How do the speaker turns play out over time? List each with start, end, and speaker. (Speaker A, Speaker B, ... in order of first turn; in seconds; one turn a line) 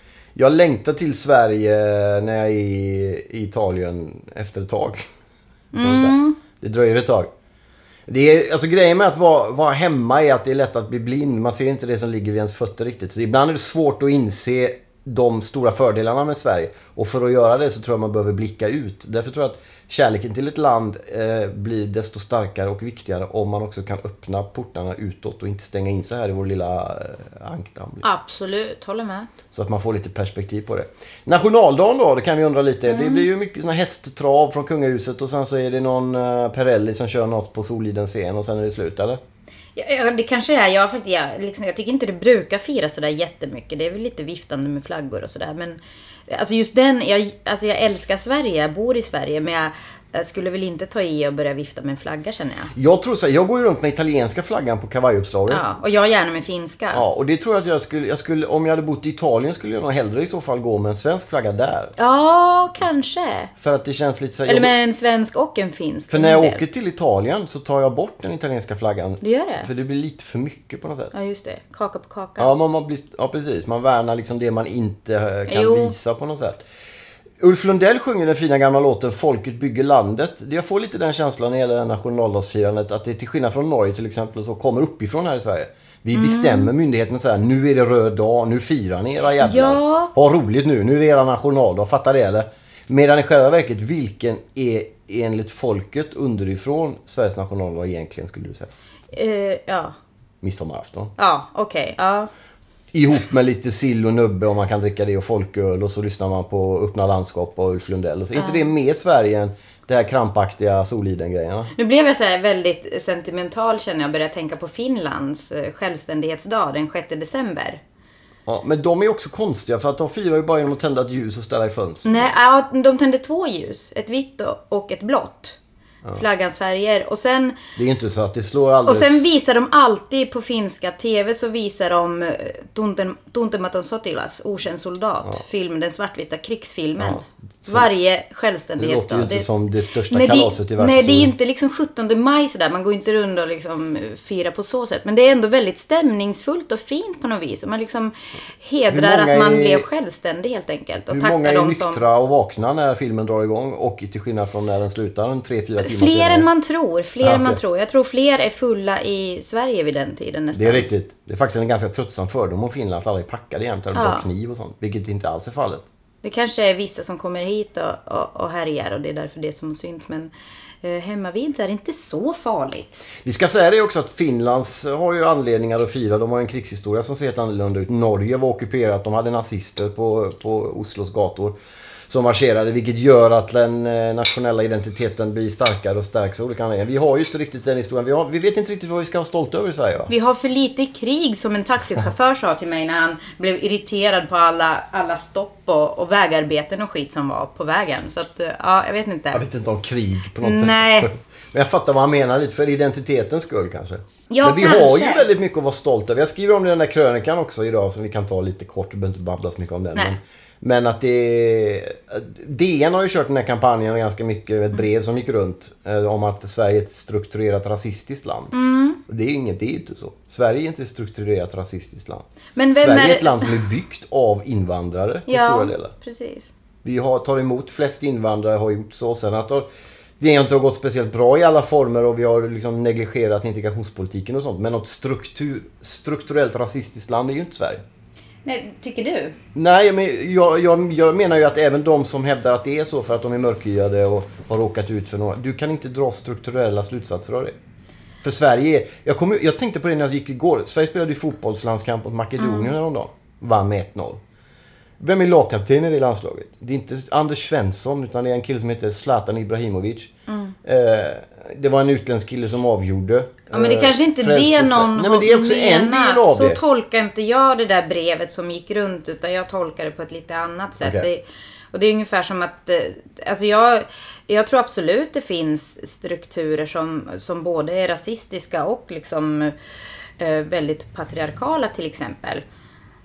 Speaker A: 0.4-5.1
Speaker B: 5.7-6.4
Speaker A: 5.8-7.3
Speaker A: 8.1-28.1
Speaker B: 28.0-29.3
Speaker A: 29.5-39.2
Speaker B: 32.9-33.2
Speaker B: 39.8-52.7
Speaker A: 52.7-55.6
Speaker B: 55.5-57.0
Speaker A: 56.9-61.9
Speaker B: 62.0-63.5
Speaker A: 63.6-64.7
Speaker B: 64.5-66.6
Speaker A: 66.1-71.1
Speaker B: 69.2-69.7
Speaker B: 71.1-72.5
Speaker A: 72.4-76.6
Speaker B: 75.5-76.0
Speaker A: 77.4-98.7
Speaker B: 86.1-86.7
Speaker B: 89.4-90.1
Speaker B: 99.1-100.0
Speaker A: 100.4-101.2
Speaker B: 101.2-102.3
Speaker A: 102.9-111.7
Speaker B: 108.3-108.7
Speaker B: 111.8-117.8
Speaker A: 118.5-122.3
Speaker B: 122.0-125.6
Speaker B: 126.1-127.6
Speaker A: 127.8-129.3
Speaker B: 128.8-139.5
Speaker A: 137.0-137.9
Speaker A: 138.8-141.3
Speaker B: 140.1-152.0
Speaker A: 148.9-149.9
Speaker A: 151.1-156.5
Speaker B: 155.8-160.9
Speaker A: 157.2-157.6
Speaker A: 160.5-165.9
Speaker B: 163.9-164.3
Speaker B: 166.2-170.3
Speaker B: 170.8-173.1
Speaker A: 173.2-181.6
Speaker A: 182.1-190.1
Speaker B: 190.1-199.4
Speaker A: 199.3-218.5
Speaker B: 200.4-201.1
Speaker B: 204.3-205.2
Speaker B: 218.5-219.0
Speaker A: 219.1-225.9
Speaker B: 222.6-223.6
Speaker B: 225.3-226.5
Speaker A: 226.8-229.7
Speaker A: 230.2-237.8
Speaker B: 238.4-239.4
Speaker A: 239.6-247.6
Speaker A: 248.2-254.2
Speaker B: 252.4-252.7
Speaker A: 255.0-260.1
Speaker B: 260.3-260.6
Speaker A: 260.6-266.6
Speaker B: 263.5-279.6
Speaker A: 270.8-271.1
Speaker B: 280.2-282.4